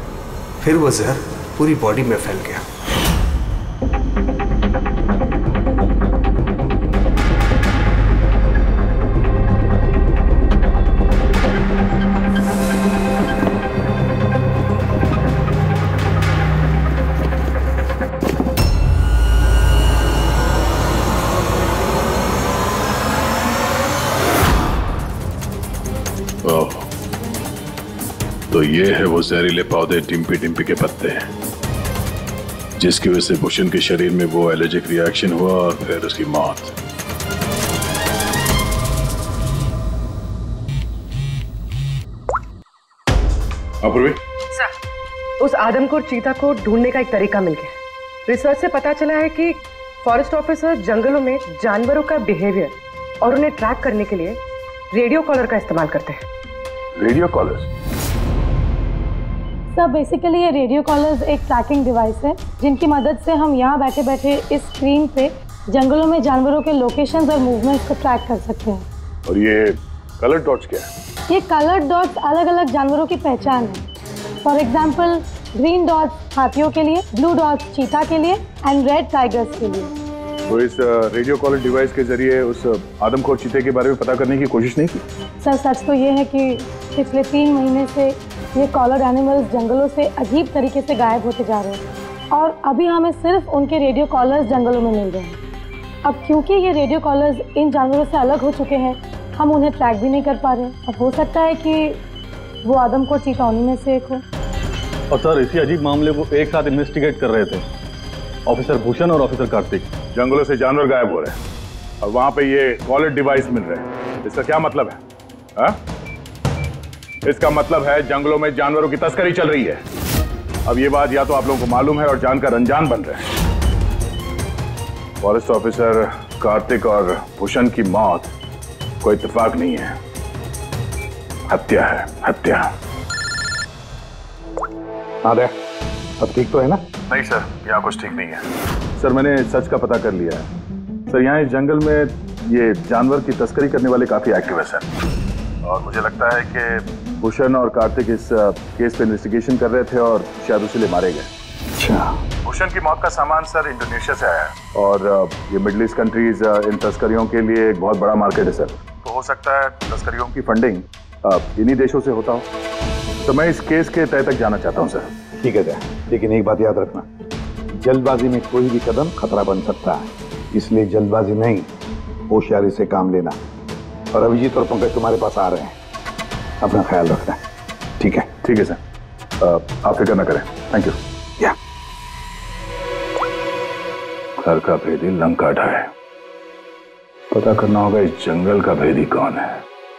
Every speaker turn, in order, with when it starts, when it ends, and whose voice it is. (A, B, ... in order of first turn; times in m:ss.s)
0:00.6-0:02.6 A
0:26.4-0:26.8 B
0:28.5-0:31.3 B
0:32.8-0:36.8 B
0:43.8-0:44.2 B
0:45.4-0:47.8 C
0:48.3-0:54.4 C
0:54.9-0:56.2 C
0:57.0-0:57.7 B
0:59.7-1:08.9 D
1:09.3-1:10.9 B
1:11.3-1:13.8 D
1:14.4-1:19.9 D
1:20.5-1:25.0 B
1:25.4-1:35.4 D
1:36.0-1:42.0 D
1:42.6-1:44.2 D
1:45.1-1:47.6 E
1:48.4-1:49.9 E
1:50.1-1:51.4 B
1:52.0-1:55.0 B
1:57.2-1:59.8 B
2:00.6-2:03.3 B
2:05.2-2:08.3 B
2:09.0-2:10.0 B
2:11.5-2:12.7 B
2:15.2-2:15.5 F
2:16.2-2:16.8 F
2:17.1-2:18.4 B
2:19.0-2:20.5 B
2:21.1-2:24.9 B
2:25.6-2:31.3 B
2:31.8-2:32.2 F
2:32.4-2:42.5 B
2:43.2-2:45.1 B
2:45.4-2:47.0 F
2:47.8-2:51.7 F
2:52.3-2:53.4 F
2:54.1-2:55.8 F
2:56.6-2:57.4 F
2:58.0-2:58.3 F
2:58.4-2:58.8 B
2:59.4-3:01.0 B
3:04.4-3:05.9 B
3:07.3-3:09.6 B